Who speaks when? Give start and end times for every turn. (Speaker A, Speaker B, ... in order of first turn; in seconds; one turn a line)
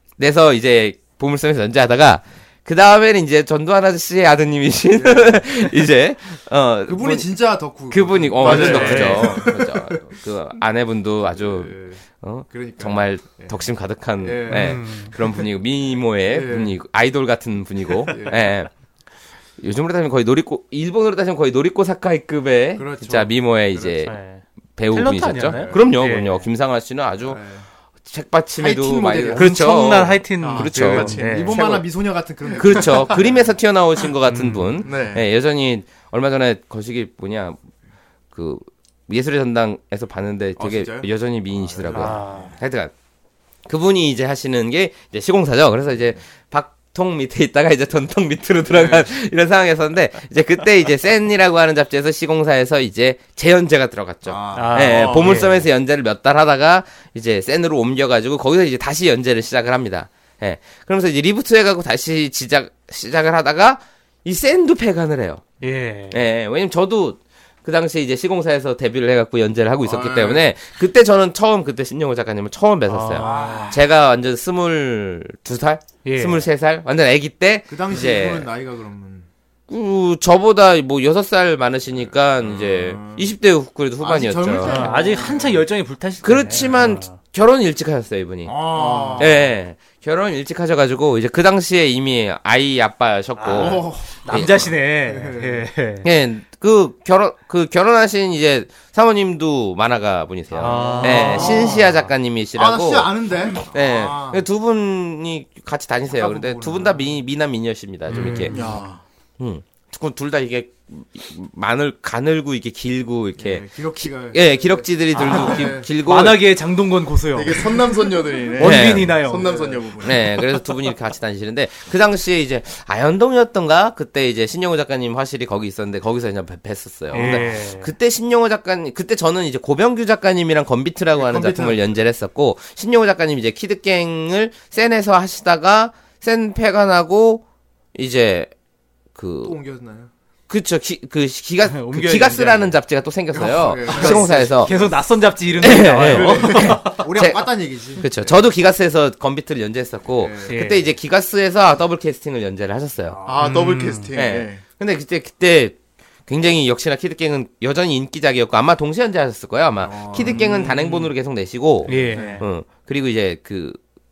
Speaker A: 0.2-7.3
Speaker B: 4.9-5.7
Speaker B: 6.8-10.0
Speaker A: 7.9-18.7
Speaker C: 8.4-8.9
Speaker D: 8.4-9.4
Speaker B: 11.4-13.6
Speaker B: 14.2-14.8
Speaker D: 14.5-15.1
Speaker B: 16.3-16.7
Speaker B: 18.1-18.4
Speaker A: 19.6-24.1
Speaker B: 22.8-24.0
Speaker D: 24.1-26.5
Speaker A: 24.8-27.4
Speaker B: 25.4-25.8
Speaker B: 27.3-27.6
Speaker A: 28.1-31.8
Speaker B: 28.6-29.5
Speaker D: 29.3-31.6
Speaker C: 30.4-31.5
Speaker B: 30.4-33.4
Speaker A: 32.6-37.6
Speaker D: 34.2-34.7
Speaker C: 34.8-35.2
Speaker A: 38.3-42.9
Speaker B: 40.6-42.5
Speaker D: 41.9-42.5
Speaker A: 43.7-65.4
Speaker B: 48.7-49.1
Speaker B: 54.2-55.3
Speaker D: 54.5-55.6
Speaker D: 65.6-66.2
Speaker A: 66.1-78.5
Speaker B: 69.8-70.4
Speaker D: 72.9-73.7
Speaker B: 73.1-73.8
Speaker D: 76.0-76.5
Speaker B: 77.7-79.3
Speaker A: 79.7-84.9
Speaker B: 82.5-83.3
Speaker B: 84.0-85.6
Speaker D: 84.6-87.1
Speaker A: 86.2-88.5
Speaker B: 88.5-89.4
Speaker C: 88.7-89.4
Speaker A: 89.2-94.7
Speaker D: 93.4-96.1
Speaker B: 93.5-95.7
Speaker A: 96.0-108.5
Speaker D: 100.5-102.0
Speaker B: 100.6-101.9
Speaker B: 102.5-104.4
Speaker B: 106.1-107.1
Speaker D: 108.1-108.6
Speaker B: 108.2-108.8
Speaker C: 108.5-109.0
Speaker A: 109.4-116.4
Speaker B: 113.4-115.9
Speaker D: 115.2-117.8
Speaker C: 117.3-120.3
Speaker D: 118.6-119.5
Speaker A: 118.6-119.2
Speaker B: 119.4-120.1
Speaker A: 120.0-137.4
Speaker D: 127.1-127.9
Speaker B: 127.2-127.4
Speaker B: 131.1-131.9
Speaker A: 137.9-138.5
Speaker A: 139.1-139.6
Speaker B: 139.4-140.1
Speaker A: 140.5-144.7
Speaker D: 141.6-142.8
Speaker B: 143.3-144.9
Speaker D: 143.9-147.1
Speaker A: 145.6-153.2
Speaker B: 145.6-148.3
Speaker B: 150.2-150.5
Speaker D: 150.5-150.9
Speaker B: 153.1-153.5
Speaker C: 153.2-154.6
Speaker D: 153.4-154.1
Speaker A: 154.1-163.8
Speaker B: 159.8-161.0
Speaker C: 160.2-160.9
Speaker B: 161.9-162.4
Speaker D: 161.9-162.4
Speaker C: 162.0-162.3